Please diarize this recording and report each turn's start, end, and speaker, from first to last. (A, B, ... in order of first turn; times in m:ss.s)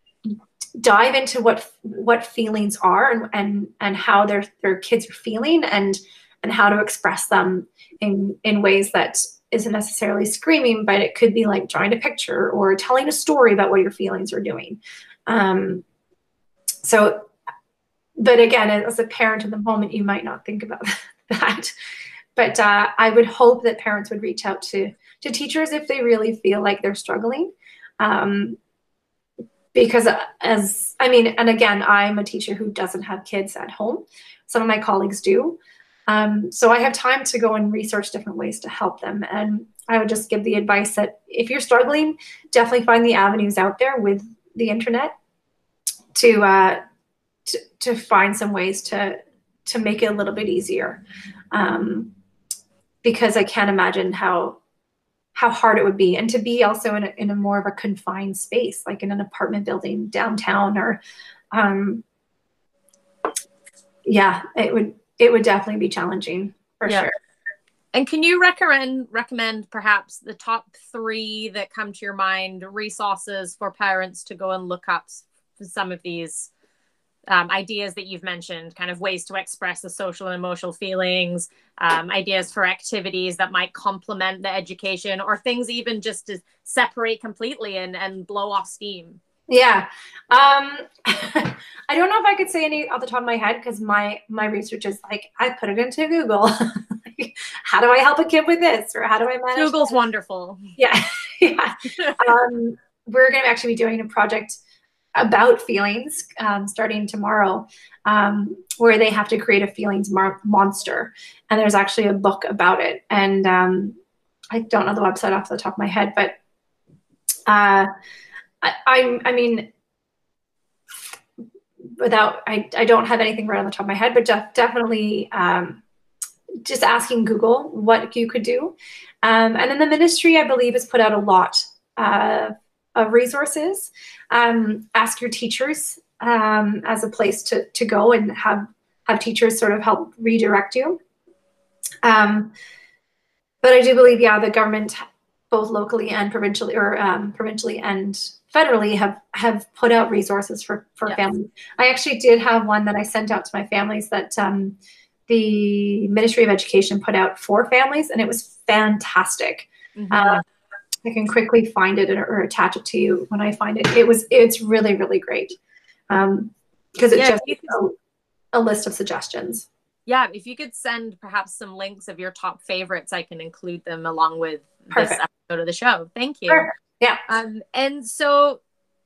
0:00.3-0:15.8 A
0:16.8-0:17.3 A
0:18.2-0:21.7 A
0:22.4-0:28.6 A
0:29.7-0:45.1 A
0:46.1-0:46.8 A
0:47.5-0:51.0 A
0:51.5-0:52.1 A
0:53.0-0:54.6 A
0:55.4-1:01.0 A
1:01.5-1:02.0 A
1:04.0-1:07.1 A
1:07.9-1:16.5 B
1:17.3-1:29.2 B
1:29.5-1:39.9 A
1:39.6-1:40.7 B
1:40.8-1:44.6 A
1:45.2-1:53.9 A
1:54.5-1:56.4 A
1:57.5-1:57.9 A
1:58.6-1:59.7 A
2:02.0-2:05.8 A
2:06.6-2:21.0 A
2:22.0-2:22.5 A
2:23.6-2:34.8 A
2:35.3-2:40.4 A
2:40.0-2:40.4 B
2:41.0-2:45.5 A
2:46.1-2:48.0 A
2:47.2-2:47.8 B
2:48.5-2:49.7 A
2:50.1-2:56.7 B
2:54.9-2:55.2 A
2:56.5-2:57.2 A
2:57.3-2:58.6 B